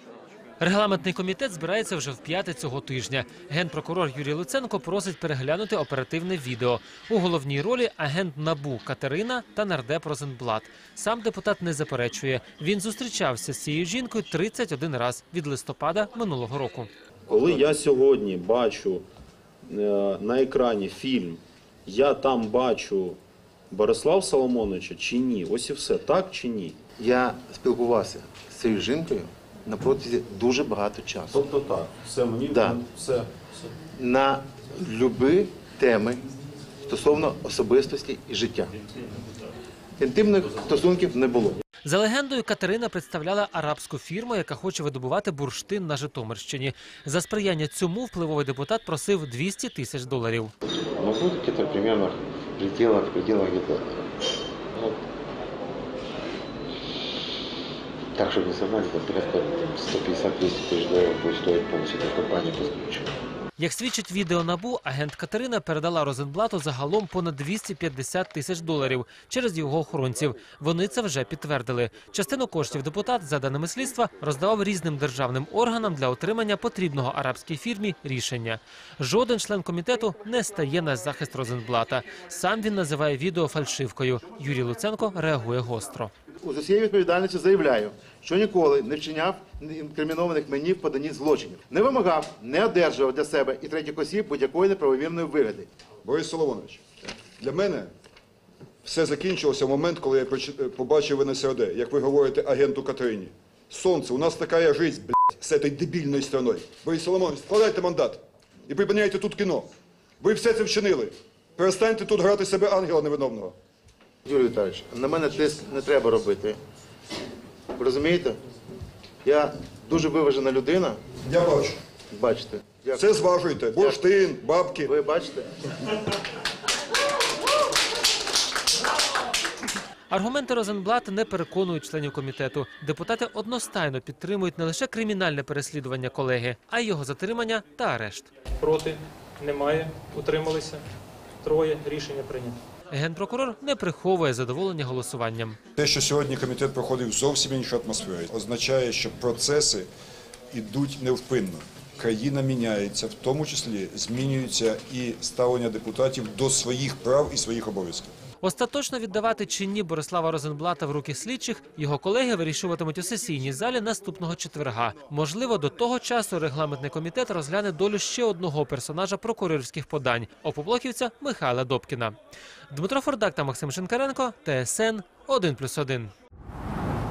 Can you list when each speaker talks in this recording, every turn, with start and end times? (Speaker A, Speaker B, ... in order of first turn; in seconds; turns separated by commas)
Speaker A: 0.6-16.9, Speaker B: 17.3-19.0, Speaker B: 19.6-23.2, Speaker B: 23.7-26.8, Speaker C: 27.0-31.4, Speaker B: 31.3-33.5, Speaker C: 32.5-32.8, Speaker C: 33.9-36.2, Speaker C: 36.8-38.7, Speaker C: 40.0-41.6, Speaker A: 41.8-50.5, Speaker D: 50.9-54.1, Speaker D: 58.1-63.2, Speaker A: 63.6-86.1, Speaker C: 86.4-95.7, Speaker E: 96.0-96.8, Speaker E: 97.4-97.9, Speaker E: 98.8-113.5, Speaker C: 114.2-116.6, Speaker C: 117.7-118.4, Speaker C: 119.2-121.0, Speaker E: 121.1-121.8, Speaker C: 122.1-123.2, Speaker E: 123.0-124.9, Speaker C: 123.8-124.0, Speaker C: 124.8-125.5, Speaker A: 130.1-138.3, Speaker F: 138.6-140.8, Speaker F: 141.4-142.6, Speaker A: 142.9-145.6, Speaker E: 145.8-149.9, Speaker E: 150.5-158.1, Speaker A: 158.4-172.2, Speaker A: 172.7-176.1